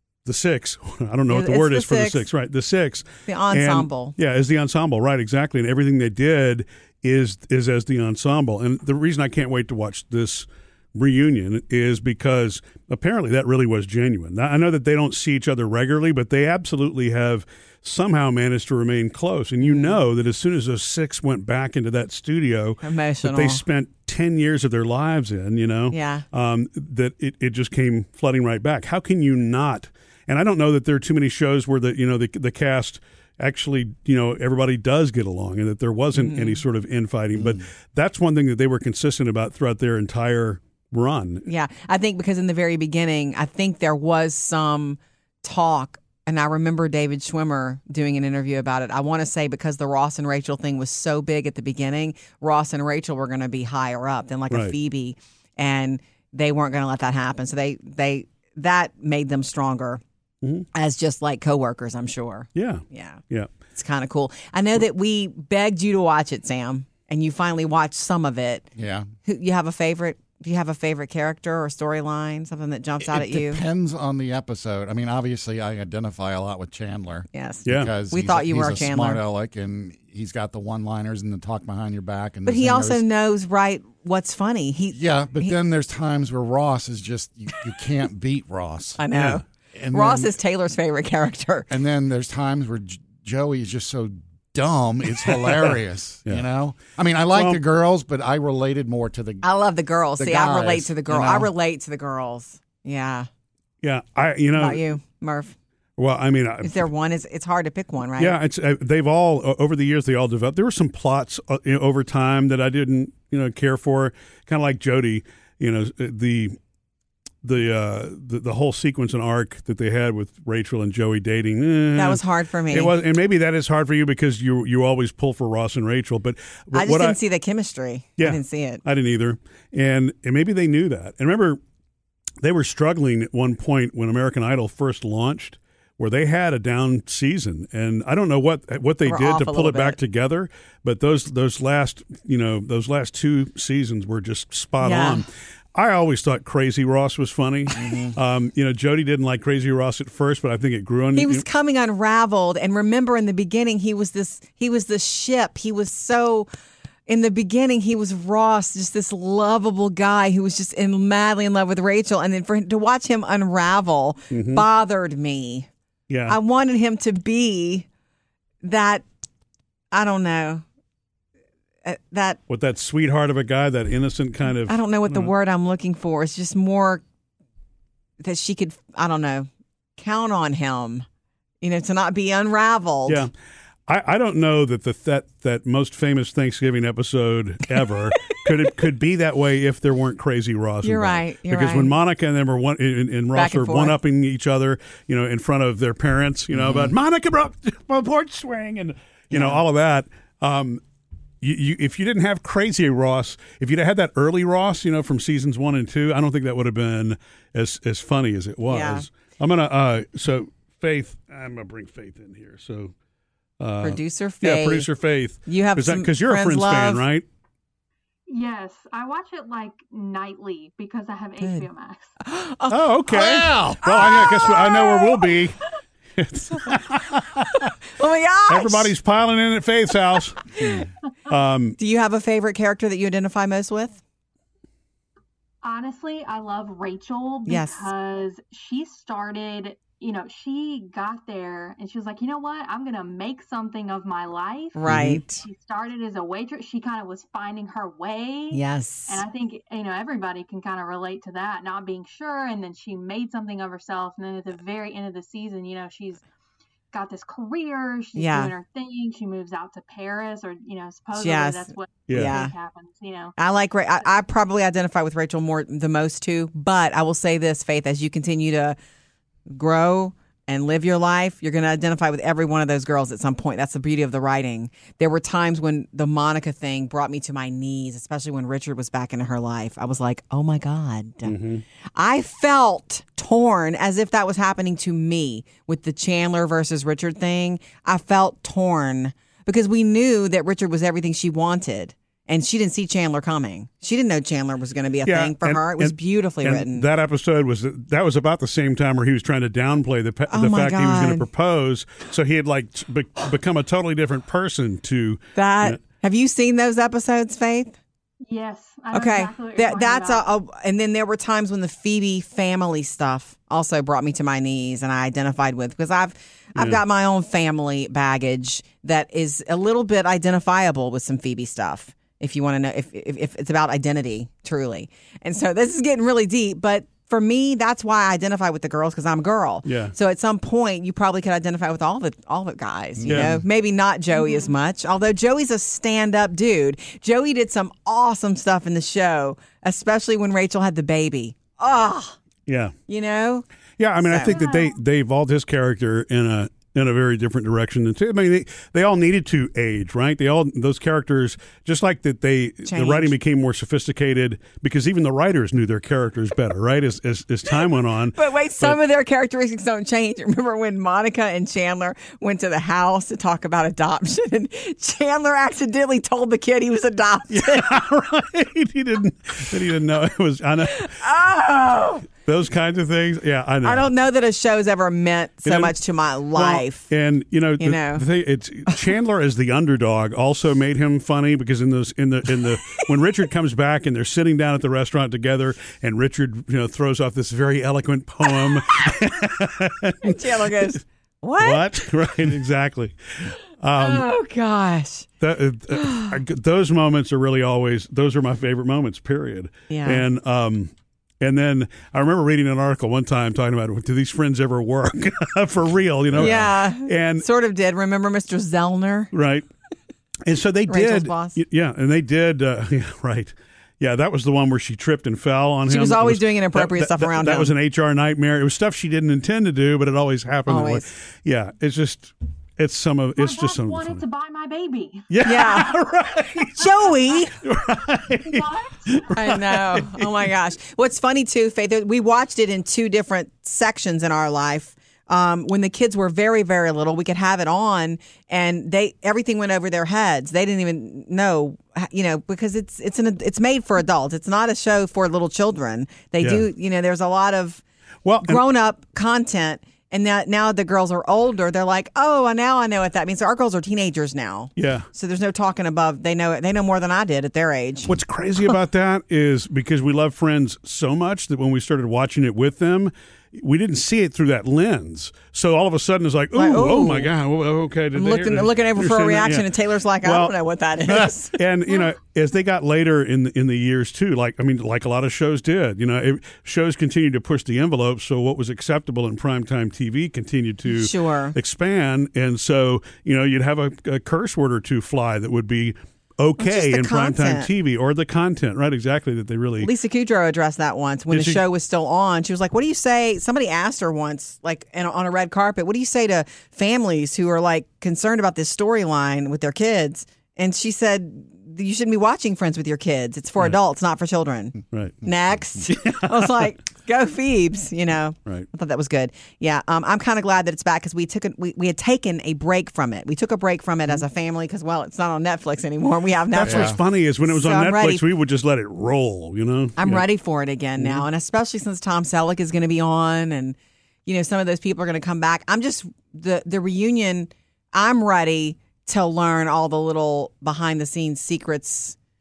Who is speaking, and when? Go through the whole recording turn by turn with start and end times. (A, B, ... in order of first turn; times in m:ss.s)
0:00.2-0:41.4 A
0:01.3-0:02.2 B
0:03.3-0:04.2 B
0:19.6-0:20.0 B
0:22.8-0:23.6 B
0:25.9-0:26.2 B
0:36.2-0:36.6 B
0:41.4-1:00.0 B
1:00.8-1:03.2 B
1:02.6-1:03.5 A
1:03.7-1:08.7 B
1:08.8-1:09.1 C
1:09.2-1:13.6 B
1:13.1-1:23.0 C
1:17.3-1:19.2 B
1:17.7-1:17.9 A
1:22.4-1:25.5 B
1:24.9-1:29.0 C
1:29.0-1:31.7 B
1:29.1-1:29.4 A
1:29.8-1:30.3 C
1:31.7-1:39.4 C
1:37.3-1:37.6 A
1:39.4-1:43.3 B
1:40.2-1:41.5 C
1:43.8-1:44.8 A
1:44.5-1:45.6 B
1:46.0-1:46.8 A
1:46.6-1:48.3 B
1:48.2-1:56.6 A
1:57.4-2:07.2 A
2:01.9-2:02.9 B
2:06.7-2:08.8 B
2:08.2-2:11.6 A
2:12.4-2:31.4 A
2:19.0-2:20.0 B
2:24.8-2:25.2 B
2:27.8-2:28.2 C
2:31.2-2:36.5 B
2:37.1-2:45.7 B
2:44.3-2:44.7 A
2:46.1-2:46.4 A
2:46.3-2:47.8 B
2:48.6-2:49.0 B
2:49.9-2:50.6 B
2:51.8-2:52.4 B
2:52.5-2:55.3 A
2:54.7-2:57.0 B
2:58.2-3:01.0 B
3:01.6-3:03.2 B
3:03.9-3:20.8 A
3:10.8-3:11.9 B
3:13.3-3:14.0 B
3:16.5-3:16.9 C
3:19.3-3:19.6 B
3:21.4-3:32.9 A
3:28.7-3:29.1 B
3:33.6-3:37.2 A
3:33.8-3:34.9 B
3:35.4-3:37.0 B
3:38.3-3:42.1 D
3:41.4-3:41.7 B
3:42.2-3:42.8 B
3:42.7-3:45.6 A
3:43.1-3:44.3 C
3:43.8-3:45.3 B
3:46.2-3:47.7 A
3:48.0-3:48.9 B
3:48.5-3:51.8 A
3:51.8-3:54.0 B
3:55.6-4:04.8 D
3:57.5-3:57.9 B
4:04.8-4:05.4 B
4:04.9-4:05.2 A
4:05.4-4:16.2 D
4:08.5-4:09.2 B
4:16.9-4:23.4 D
4:18.2-4:18.5 B
4:21.2-4:22.6 B
4:22.1-4:22.4 A
4:23.4-4:28.8 B
4:29.5-4:41.3 B
4:41.2-4:41.6 A
4:42.0-4:56.8 B
4:55.0-5:05.8 A
5:00.3-5:01.3 B
5:05.4-5:07.8 B
5:08.2-5:10.3 D
5:08.9-5:42.2 B
5:16.6-5:16.8 A
5:29.6-5:29.9 A
5:33.0-5:33.4 C
5:33.1-5:33.3 A
5:34.2-5:34.5 D
5:42.5-5:42.7 A
5:42.9-5:43.4 B
5:43.8-5:58.8 A
5:44.0-5:44.4 B
5:44.3-5:44.8 D
5:52.6-5:53.1 B
5:57.7-6:07.8 B
6:07.3-6:10.9 A
6:10.7-6:12.1 B
6:12.2-6:13.9 A
6:13.6-6:16.9 B
6:15.4-6:15.8 A
6:16.3-6:30.8 A
6:17.6-6:18.0 B
6:30.0-6:31.6 B
6:31.4-6:34.1 A
6:33.8-6:35.1 B
6:35.2-6:47.3 A
6:35.7-6:36.2 B
6:39.7-6:40.0 B
6:46.2-6:46.4 C
6:46.2-6:49.1 B
6:49.1-6:49.5 A
6:50.2-7:04.0 A
6:50.7-6:51.4 B
6:55.7-6:57.5 B
7:00.5-7:00.9 B
7:03.2-7:05.1 D
7:05.1-7:10.1 A
7:05.2-7:05.8 B
7:06.6-7:07.3 B
7:08.2-7:09.0 D
7:09.1-7:27.6 B
7:26.2-7:26.4 A
7:28.0-7:28.4 A
7:28.2-7:37.9 B
7:34.6-7:34.9 A
7:37.8-7:49.5 A
7:46.3-7:47.1 B
7:47.9-7:51.4 B
7:50.0-8:09.7 A
8:00.7-8:01.4 B
8:06.4-8:07.5 B
8:09.6-8:38.0 B
8:11.1-8:11.4 A
8:24.7-8:25.0 A
8:25.7-8:26.1 A
8:36.3-8:40.1 A
8:36.4-8:36.8 C
8:39.8-8:52.0 B
8:40.8-8:41.0 A